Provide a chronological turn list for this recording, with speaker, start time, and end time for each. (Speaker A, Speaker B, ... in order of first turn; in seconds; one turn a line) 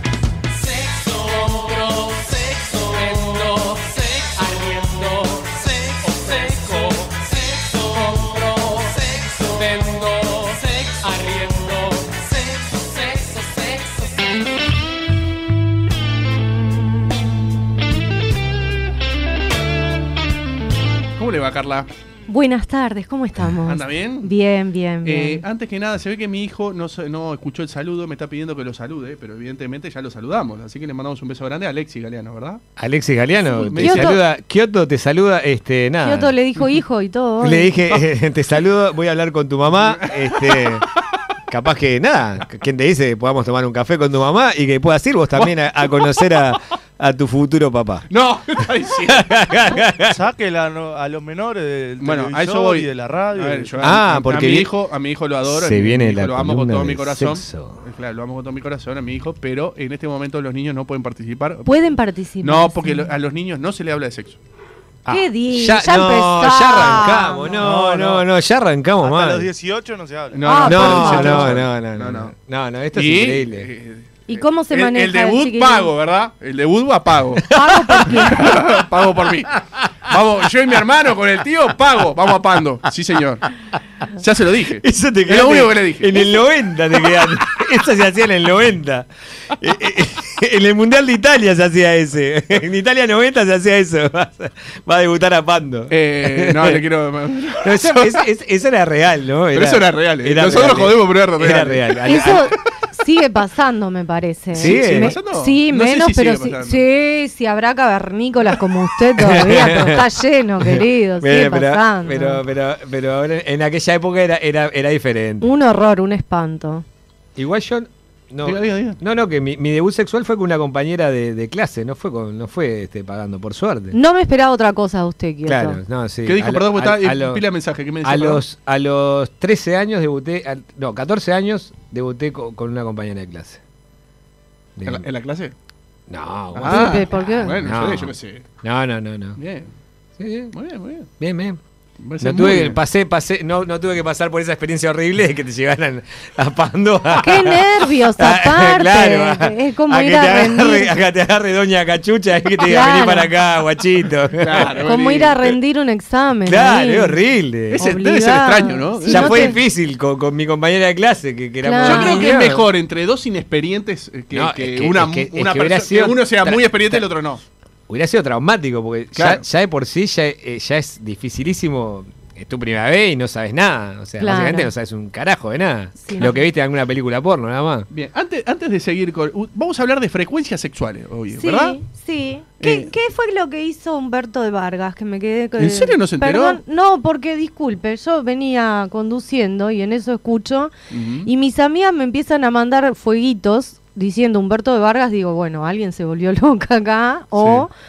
Speaker A: 0.7-14.1
Speaker B: 21.1-21.9
Speaker C: 22.3-25.4
Speaker B: 23.6-24.3
Speaker B: 25.0-32.6
Speaker D: 32.8-36.3
Speaker B: 33.5-34.2
Speaker C: 33.8-34.2
Speaker C: 36.0-37.8
Speaker D: 37.4-40.9
Speaker B: 39.7-40.8
Speaker D: 41.5-48.1
Speaker B: 45.4-46.1
Speaker B: 48.1-49.7
Speaker D: 49.1-50.2
Speaker E: 50.1-53.8
Speaker B: 52.0-61.7
Speaker D: 53.8-54.7
Speaker D: 55.5-57.8
Speaker C: 61.6-63.1
Speaker B: 62.4-64.4
Speaker D: 65.0-69.5
Speaker C: 65.1-67.6
Speaker E: 67.6-68.2
Speaker E: 69.0-70.7
Speaker B: 70.3-72.3
Speaker C: 70.4-71.5
Speaker D: 70.7-73.7
Speaker B: 72.9-77.4
Speaker C: 74.3-75.9
Speaker C: 77.5-78.6
Speaker D: 77.6-78.3
Speaker B: 78.0-83.5
Speaker B: 84.2-86.2
Speaker D: 84.8-96.8
Speaker B: 95.9-98.2
Speaker D: 97.6-102.5
Speaker B: 99.5-102.5
Speaker C: 102.0-112.4
Speaker D: 104.5-105.1
Speaker B: 104.5-106.8
Speaker D: 109.2-110.0
Speaker D: 110.6-115.5
Speaker C: 115.4-116.8
Speaker D: 117.3-123.9
Speaker B: 118.4-119.0
Speaker C: 123.9-125.8
Speaker D: 125.5-127.4
Speaker B: 126.2-128.4
Speaker D: 128.0-133.6
Speaker D: 134.8-135.0
Speaker B: 134.8-135.5
Speaker D: 136.1-139.4
Speaker B: 136.5-138.4
Speaker C: 136.7-137.6
Speaker B: 139.4-139.7
Speaker D: 140.2-140.5
Speaker B: 140.5-141.1
Speaker D: 141.2-141.6
Speaker B: 142.0-142.8
Speaker D: 142.2-154.8
Speaker C: 147.2-150.9
Speaker C: 152.6-153.3
Speaker B: 154.4-155.5
Speaker C: 154.8-157.2
Speaker D: 156.4-157.8
Speaker B: 157.7-159.6
Speaker C: 157.8-159.6
Speaker D: 159.1-162.7
Speaker C: 161.6-162.3
Speaker B: 161.8-167.4
Speaker D: 164.3-167.0
Speaker D: 167.9-177.9
Speaker B: 169.1-169.4
Speaker C: 174.2-174.7
Speaker C: 176.0-176.4
Speaker B: 177.9-181.8
Speaker C: 181.3-190.7
Speaker B: 182.6-182.9
Speaker B: 185.6-186.6
Speaker B: 190.9-191.3
Speaker C: 191.2-197.7
Speaker B: 197.4-197.7